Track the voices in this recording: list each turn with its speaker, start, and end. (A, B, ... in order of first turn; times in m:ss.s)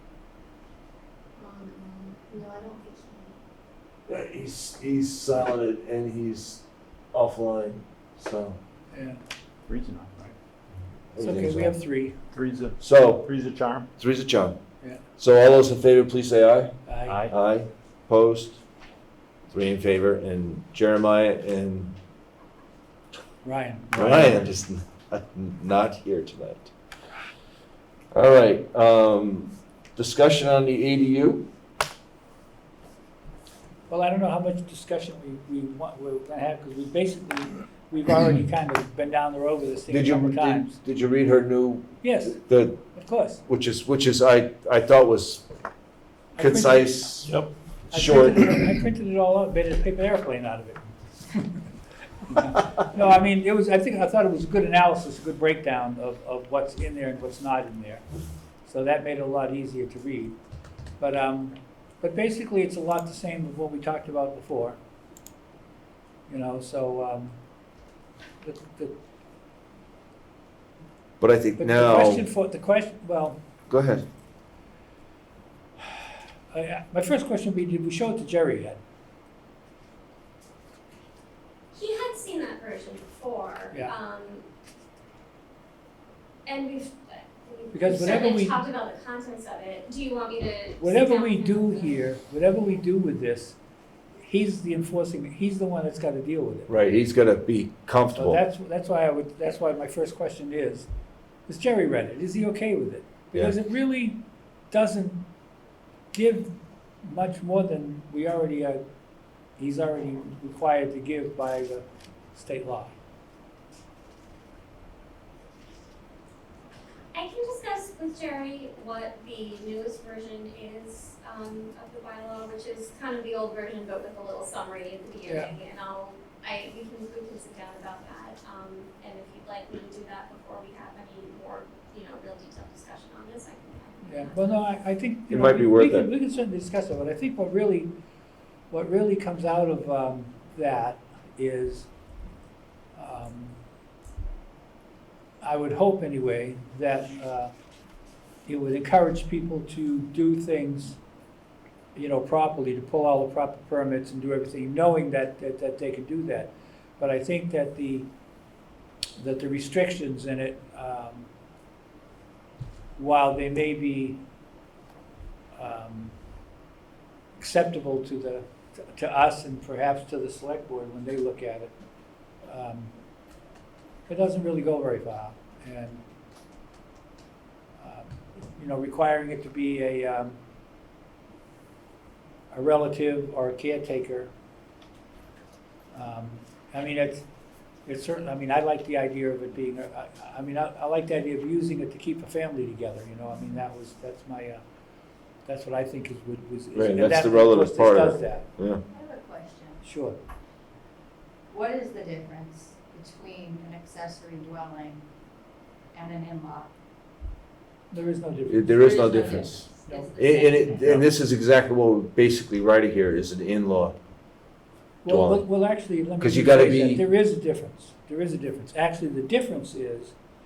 0:01.4-0:03.4 A
0:04.1-0:08.6 B
0:08.9-0:09.2 C
0:09.7-0:10.4 D
0:11.1-0:11.8 B
0:11.2-0:12.2 C
0:12.3-0:13.9 D
0:12.8-0:13.3 B
0:14.0-0:14.6 B
0:15.2-0:16.7 B
0:16.9-0:17.2 C
0:17.1-0:17.3 D
0:17.3-0:18.6 B
0:19.5-0:21.9 B
0:23.4-0:24.0 C
0:23.9-0:24.4 D
0:24.0-0:26.7 B
0:28.1-0:31.4 B
0:33.9-0:40.8 C
0:39.9-0:42.8 B
0:42.0-0:42.4 C
0:42.9-0:43.4 C
0:43.5-0:45.5 B
0:46.4-0:47.1 C
0:46.4-0:48.7 B
0:47.9-0:51.6 C
0:52.3-0:58.0 C
0:58.6-1:00.4 C
1:01.0-1:04.8 C
1:06.3-1:07.4 C
1:08.4-1:08.9 C
1:11.2-1:12.2 B
1:11.6-1:13.4 C
1:13.7-1:14.0 B
1:16.5-1:18.8 C
1:21.7-1:24.5 A
1:26.5-1:32.0 A
1:27.7-1:28.6 C
1:30.8-1:33.6 C
1:34.2-1:36.7 C
1:36.7-1:38.4 B
1:38.1-1:40.9 C
1:41.5-1:44.2 C
1:44.7-1:45.2 C
1:46.1-1:46.5 C
1:47.0-1:48.8 C
1:49.6-1:52.9 C
1:57.1-2:14.4 A
2:05.2-2:05.5 C
2:14.0-2:17.9 C
2:15.3-2:16.1 B
2:18.7-2:21.9 C
2:23.0-2:23.6 C
2:25.4-2:27.5 C
2:28.4-2:31.0 C
2:32.0-2:38.1 C
2:39.2-2:41.3 C
2:43.0-2:44.2 C
2:45.6-2:46.2 C
2:47.4-2:51.7 C
2:52.4-2:52.9 C
2:54.1-2:56.0 C
2:57.8-3:00.4 C
3:02.5-3:04.3 C
3:05.9-3:07.3 C
3:07.9-3:14.6 C
3:15.4-3:18.5 C
3:16.8-3:18.8 B
3:18.9-3:19.8 E
3:19.8-3:20.2 C
3:21.5-3:25.0 E
3:25.9-3:26.7 E
3:27.9-3:29.3 C
3:28.5-3:34.0 B
3:28.8-3:31.0 E
3:35.0-3:40.2 C
3:35.1-3:35.4 B
3:36.2-3:37.0 B